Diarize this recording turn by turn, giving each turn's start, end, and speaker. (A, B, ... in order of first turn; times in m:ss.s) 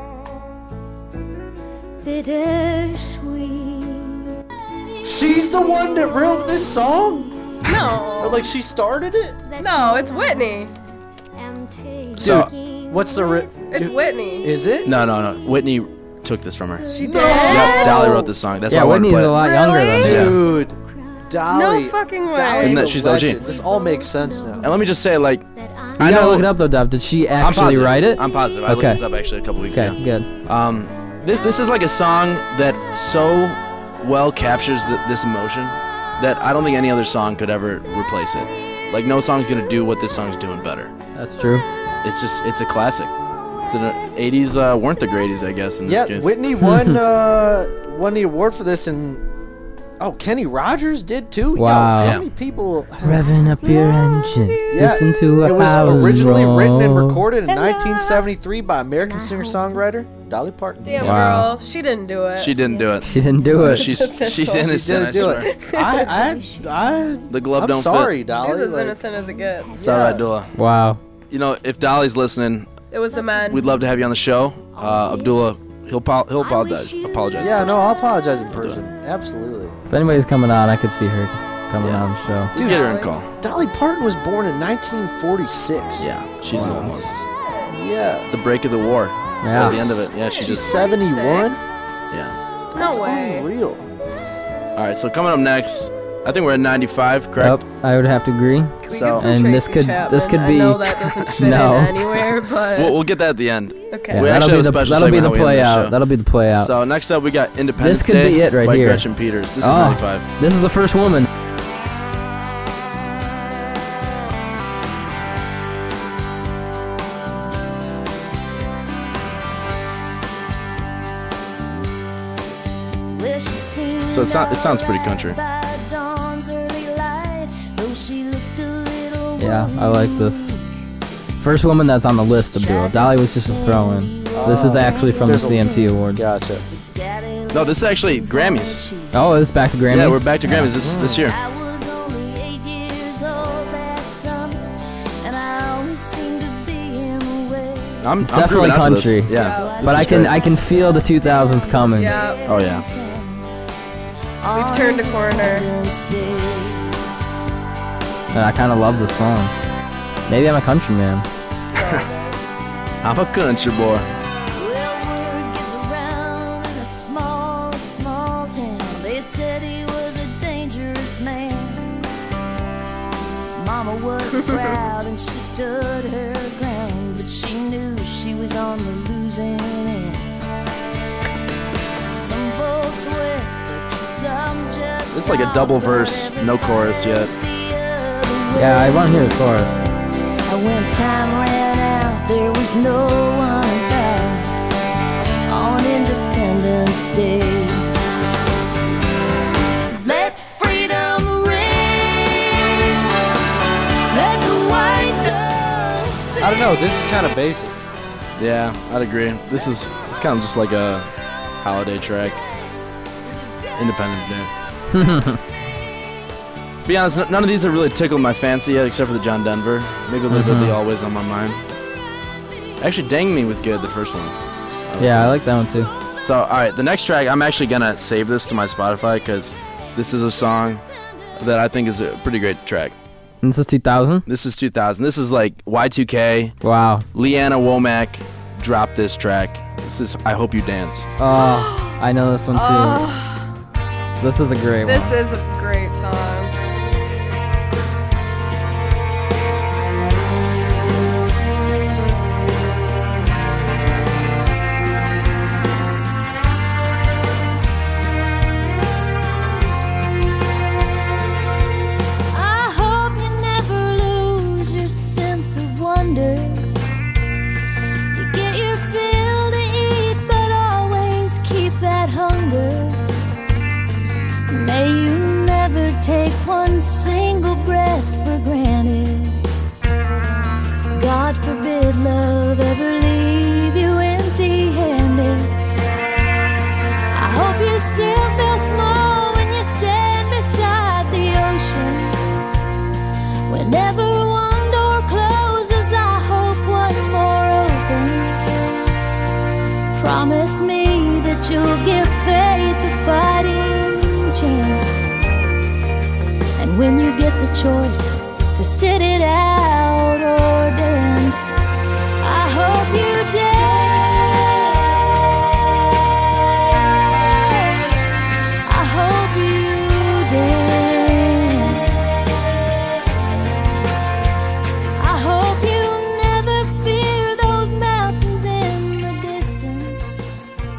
0:02.0-0:07.6 A
0:05.0-0:07.3 B
0:07.6-0:08.4 C
0:08.2-0:09.4 B
0:09.4-0:10.7 A
0:09.6-0:10.7 C
0:11.4-0:13.6 A
0:12.2-0:12.5 D
0:12.2-0:14.9 B
0:13.7-0:14.5 C
0:14.8-0:19.4 D
0:16.8-0:18.3 A
0:16.9-0:18.1 C
0:17.0-0:18.3 B
0:18.7-0:20.4 E
0:19.4-0:20.3 C
0:20.0-0:24.7 B
0:20.1-0:20.4 D
0:20.5-0:21.3 A
0:21.5-0:22.9 C
0:22.6-0:23.4 D
0:23.4-0:26.0 A
0:24.6-0:26.5 D
0:26.0-0:29.0 E
0:27.4-0:40.9 D
0:29.7-0:30.3 E
0:41.2-0:41.7 E
0:42.0-0:43.1 D
0:43.7-0:46.3 D
0:45.8-0:49.2 B
0:50.0-0:53.4 B
0:51.6-0:52.2 E
0:52.0-0:52.3 D
0:53.0-0:57.2 E
0:53.8-0:54.3 A
0:54.7-1:01.0 B
0:55.7-0:56.0 A
0:57.5-0:58.3 C
0:59.1-0:59.8 A
1:00.8-1:02.6 C
1:01.0-1:01.4 D
1:01.0-1:01.5 E
1:02.4-1:05.5 D
1:02.6-1:03.2 A
1:03.0-1:03.9 E
1:03.8-1:06.2 C
1:04.5-1:09.0 B
1:06.0-1:07.3 A
1:07.3-1:08.2 D
1:08.3-1:09.8 C
1:09.1-1:09.8 A
1:09.8-1:10.3 B
1:09.8-1:10.5 D
1:10.6-1:11.0 E
1:11.3-1:12.7 D
1:12.9-1:13.6 C
1:13.1-1:14.0 A
1:13.5-1:17.8 D
1:14.7-1:15.7 A
1:16.4-1:17.6 A
1:17.4-1:19.8 B
1:18.5-1:18.8 D
1:19.9-1:22.5 E
1:21.8-1:23.3 D
1:22.5-1:22.8 B
1:22.6-1:23.1 C
1:23.4-1:26.9 B
1:26.0-1:27.1 D
1:26.5-1:27.0 E
1:27.7-1:28.3 B
1:28.3-1:30.7 D
1:29.4-1:29.8 E
1:30.2-1:31.8 C
1:30.4-1:31.6 B
1:32.1-1:32.4 D
1:32.7-1:33.9 B
1:32.8-1:33.5 C
1:34.8-1:37.6 D
1:37.4-1:42.0 E
1:38.8-1:43.0 C
1:38.9-1:39.3 D
1:42.7-1:46.0 D
1:43.9-1:44.3 C
1:44.1-1:46.7 E
1:46.6-1:50.3 D
1:47.8-1:49.1 E
1:49.6-1:51.3 E
2:03.1-2:10.6 A
2:04.1-2:05.4 D
2:09.4-2:10.5 E
2:11.4-2:16.2 E
2:12.3-2:16.1 A
2:14.3-2:16.6 B
2:16.7-2:19.2 A
2:17.5-2:18.8 D
2:19.1-2:20.7 E
2:19.9-2:21.4 D
2:20.7-2:21.3 B
2:21.2-2:24.7 A
2:25.2-2:28.2 A
2:28.0-2:30.4 D
2:28.2-2:32.1 E
2:29.3-2:33.5 A
2:29.3-2:29.8 C
2:32.0-2:32.4 C
2:32.4-2:32.9 D
2:34.4-2:36.9 A
2:34.5-2:35.7 C
2:38.3-2:39.5 E
2:40.3-2:41.3 E
2:41.7-2:42.4 C
2:41.8-2:42.1 D
2:43.0-2:44.1 D
2:44.6-2:52.0 A
2:53.6-3:00.3 A
2:54.4-2:54.7 C
3:02.1-3:09.4 A
3:05.1-3:07.3 D
3:08.5-3:09.8 E
3:10.5-3:14.6 A
3:15.5-3:17.8 A
3:20.0-3:22.8 A
3:24.1-3:26.7 A
3:26.4-3:27.8 B
3:28.4-3:32.4 D
3:33.2-3:34.0 A
3:33.8-3:34.5 D
3:34.9-3:35.4 E
3:36.8-3:41.6 D
3:40.3-3:40.8 E
3:42.8-3:45.4 D
3:45.0-3:45.9 E
3:46.2-3:50.8 D
3:51.4-3:53.0 D
3:53.4-3:54.2 E
3:54.3-3:56.6 D
3:56.6-3:57.1 E
3:57.1-4:01.1 D
4:01.2-4:03.0 E
4:01.3-4:02.0 C
4:02.5-4:03.5 C
4:04.2-4:05.2 E
4:04.8-4:06.5 C
4:22.3-4:26.7 A
4:28.1-4:33.1 A
4:34.5-4:39.4 A
4:40.9-4:45.6 A
4:47.1-4:52.2 A
4:53.5-4:58.6 A
4:59.9-5:05.0 A
5:06.6-5:11.6 A
5:12.2-5:15.7 A
5:16.7-5:18.0 A
5:18.6-5:22.1 A
5:25.0-5:30.2 A